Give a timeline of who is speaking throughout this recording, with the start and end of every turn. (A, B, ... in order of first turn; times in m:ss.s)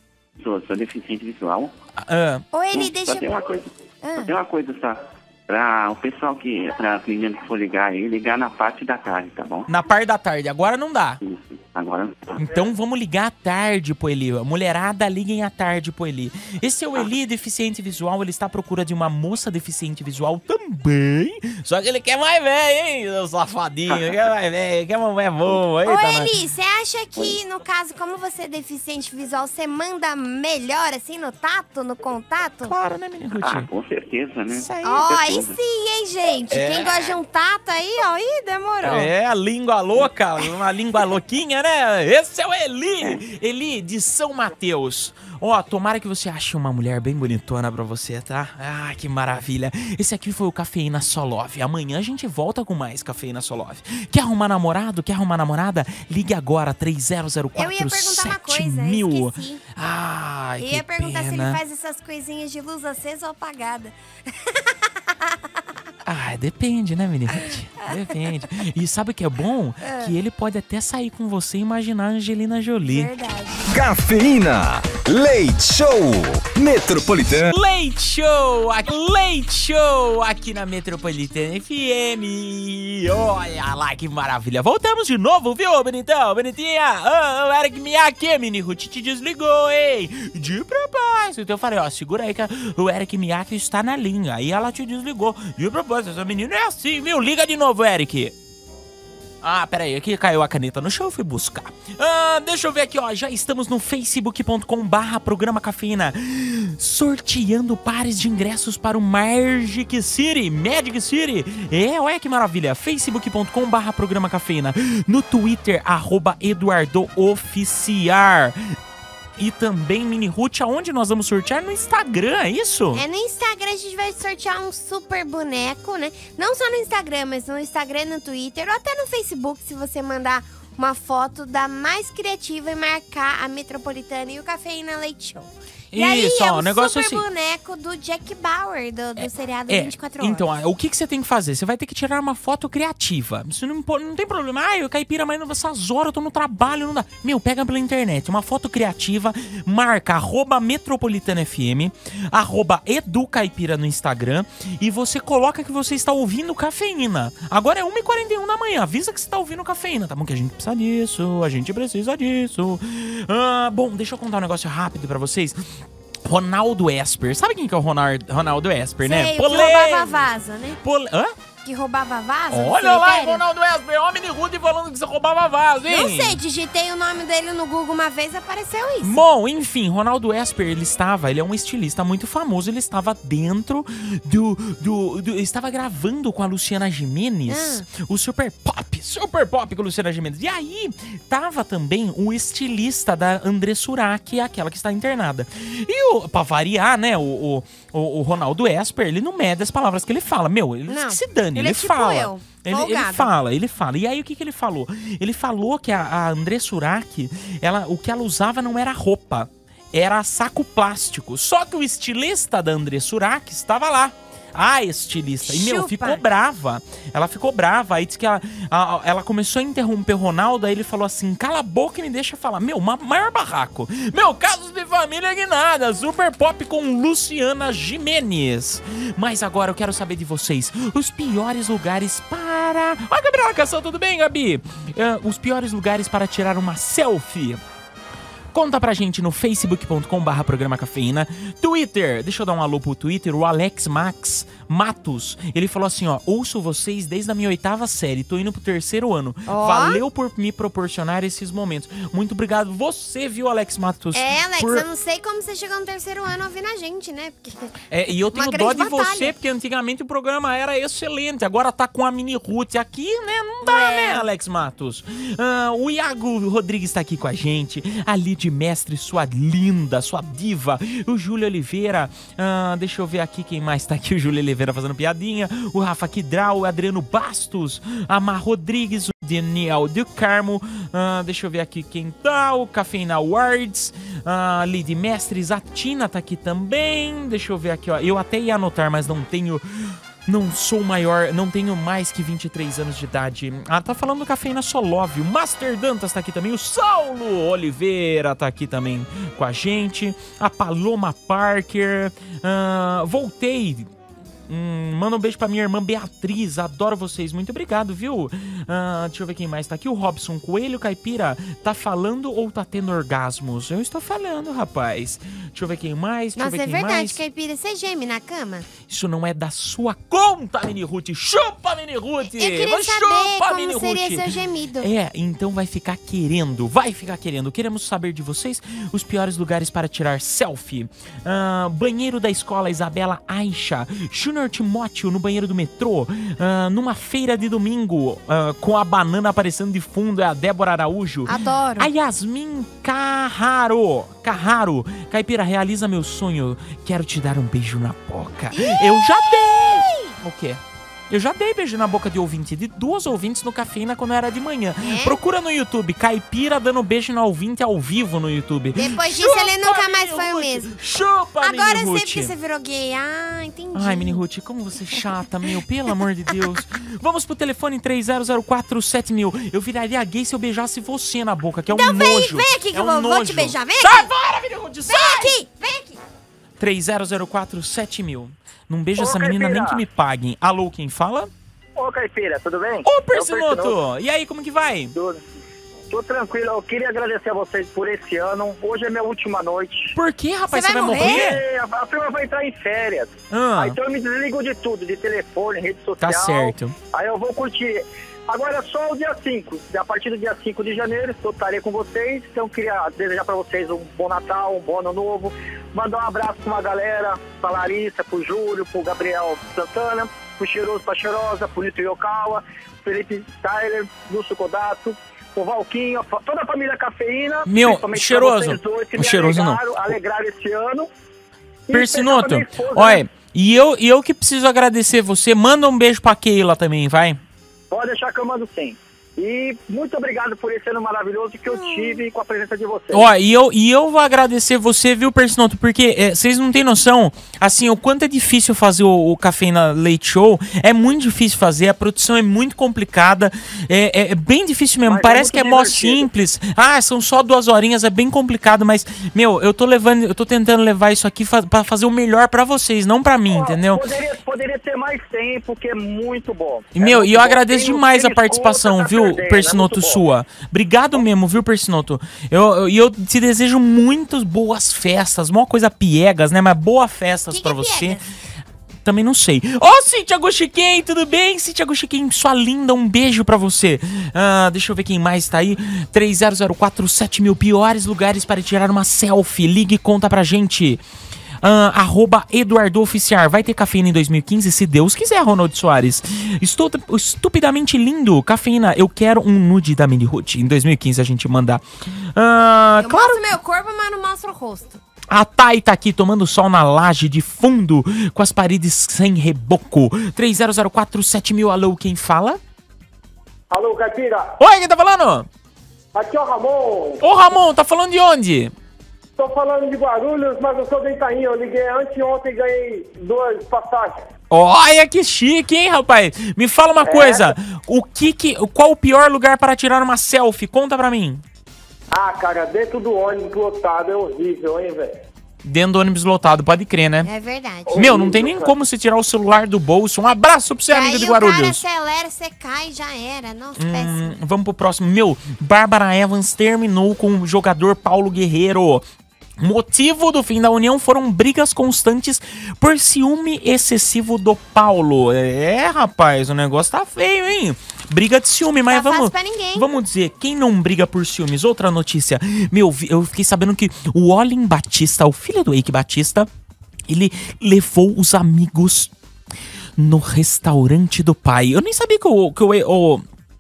0:00.4-0:01.8 A
0:02.0-0:02.4 B
0:02.5-0:04.3 C
0:02.7-0:09.7 A
0:09.7-0:11.2 B
0:11.2-0:12.5 A
0:12.4-0:26.3 B
0:23.9-0:24.2 A
0:25.8-0:32.7 C
0:32.6-0:33.7 B
0:33.3-0:35.6 A
0:34.6-0:35.0 B
0:34.8-0:39.1 C
0:36.5-0:37.1 B
0:38.8-1:01.6 B
0:57.6-0:59.6 C
1:00.6-1:05.4 C
1:06.0-1:13.1 B
1:07.5-1:07.9 C
1:09.8-1:10.1 C
1:12.9-1:13.7 C
1:13.7-1:17.5 D
1:17.5-1:38.3 B
1:39.4-1:58.7 B
1:59.4-2:03.0 B
2:03.0-2:20.4 C
2:15.9-2:17.2 B
2:19.2-2:45.7 B
2:46.2-2:50.2 B
2:49.0-2:50.8 C
2:50.8-2:51.4 B
2:51.6-2:53.4 C
2:52.5-2:56.4 B
2:55.9-2:59.2 C
2:59.0-3:57.6 B
3:07.5-3:07.9 C
3:20.9-3:23.3 C
3:35.4-3:36.2 C
3:58.5-4:14.8 B
4:09.5-4:10.0 C
4:14.1-4:19.3 C
4:17.9-4:49.6 B
4:23.6-4:24.3 C
4:50.3-5:03.9 B
5:04.5-5:17.2 B
5:16.4-5:18.7 C
5:18.9-5:24.3 B
5:22.3-5:24.9 C
5:24.8-6:02.3 B
5:41.3-5:41.9 C
5:48.6-5:50.2 C
5:54.8-5:55.2 C
5:58.8-6:00.7 C
6:01.4-6:04.2 C
6:03.7-6:15.4 B
6:11.7-6:14.1 C
6:14.9-6:16.0 C
6:16.6-6:21.3 B
6:19.0-6:19.8 E
6:21.8-6:23.8 E
6:22.8-6:24.9 B
6:25.0-6:25.2 E
6:25.9-6:29.9 E
6:29.9-6:31.4 B
6:30.5-6:31.3 C
6:30.9-7:00.9 E
6:33.3-6:33.8 B
6:36.0-6:36.7 B
6:57.4-6:59.6 B
7:01.7-7:03.0 E
7:01.7-7:07.2 B
7:07.7-7:13.1 E
7:11.5-7:12.0 C
7:12.9-7:33.8 B
7:24.9-7:26.0 E
7:33.3-7:40.0 E
7:36.7-7:48.0 B
7:47.3-7:48.1 C
7:48.8-8:00.8 B
8:01.4-8:11.6 B
8:12.2-8:13.2 B
8:12.8-8:14.8 C
8:15.1-8:22.4 B
8:23.5-8:24.3 E
8:24.4-8:25.3 B
8:25.9-8:27.0 E
8:27.0-8:28.5 B
8:29.2-8:34.0 E
8:34.3-8:41.2 B
8:36.8-8:37.3 E
8:41.9-8:45.0 E
8:45.4-8:47.1 B
8:47.0-8:48.1 C
8:47.7-8:48.5 E
8:47.7-8:51.6 B
8:50.7-8:54.2 C
8:53.6-8:58.8 B
8:59.4-9:16.3 B
9:08.7-9:09.7 C
9:16.9-9:18.9 B
9:19.8-9:23.0 B